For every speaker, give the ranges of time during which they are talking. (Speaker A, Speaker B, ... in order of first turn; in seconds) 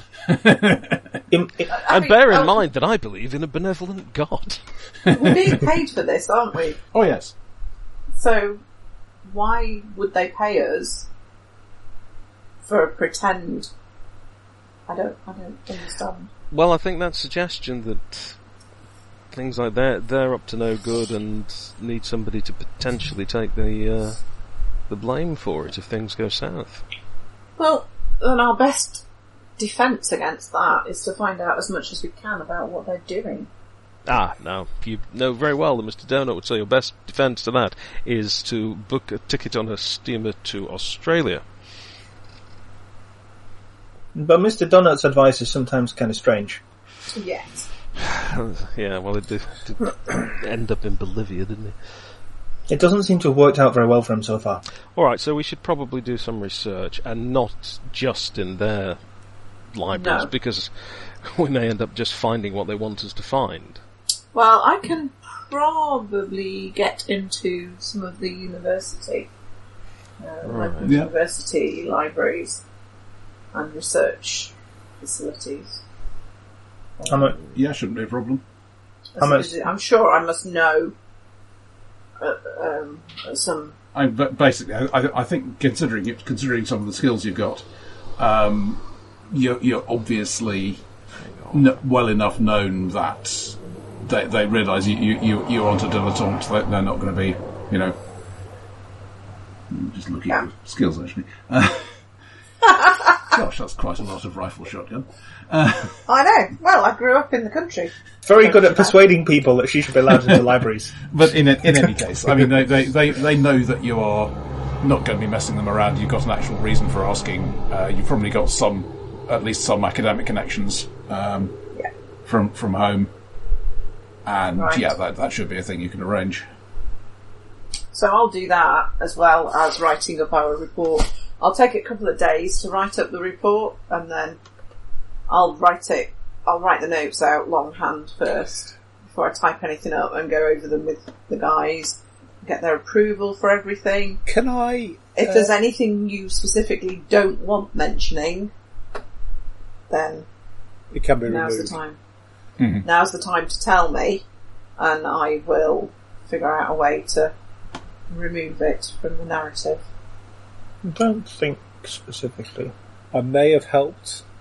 Speaker A: 0.3-1.0, 6.9-7.3, 70.8-71.1, 77.5-78.4, 83.9-87.7, 88.2-90.8, 91.5-98.0, 99.7-101.9, 103.1-106.0, 111.1-121.6, 122.3-123.1, 124.2-126.4, 152.6-152.8
Speaker B: 1.3-1.7, 44.1-46.6, 52.7-54.6, 77.1-77.4, 79.2-79.6, 108.2-111.1, 160.8-162.7
Speaker C: 1.7-2.6, 5.1-6.8, 8.2-8.6, 9.2-11.1, 12.7-13.7, 14.9-16.3, 27.6-29.0, 29.6-33.5, 47.1-47.7, 59.9-60.3, 64.3-69.3, 70.2-72.6, 73.5-75.8, 79.2-81.0, 82.2-83.7, 102.7-103.1, 106.1-109.0, 124.6-124.8, 127.9-134.4, 135.3-144.2, 145.2-148.5, 149.9-150.3, 151.3-152.0, 152.8-154.2, 154.8-157.3, 158.1-159.8
Speaker D: 1.9-4.6, 16.5-18.4, 19.3-24.2, 24.9-26.9, 34.1-41.4, 48.0-51.8, 55.0-59.0, 59.7-63.8, 70.4-71.0, 91.2-91.6
Speaker E: 144.3-145.5, 150.9-151.8, 163.1-164.2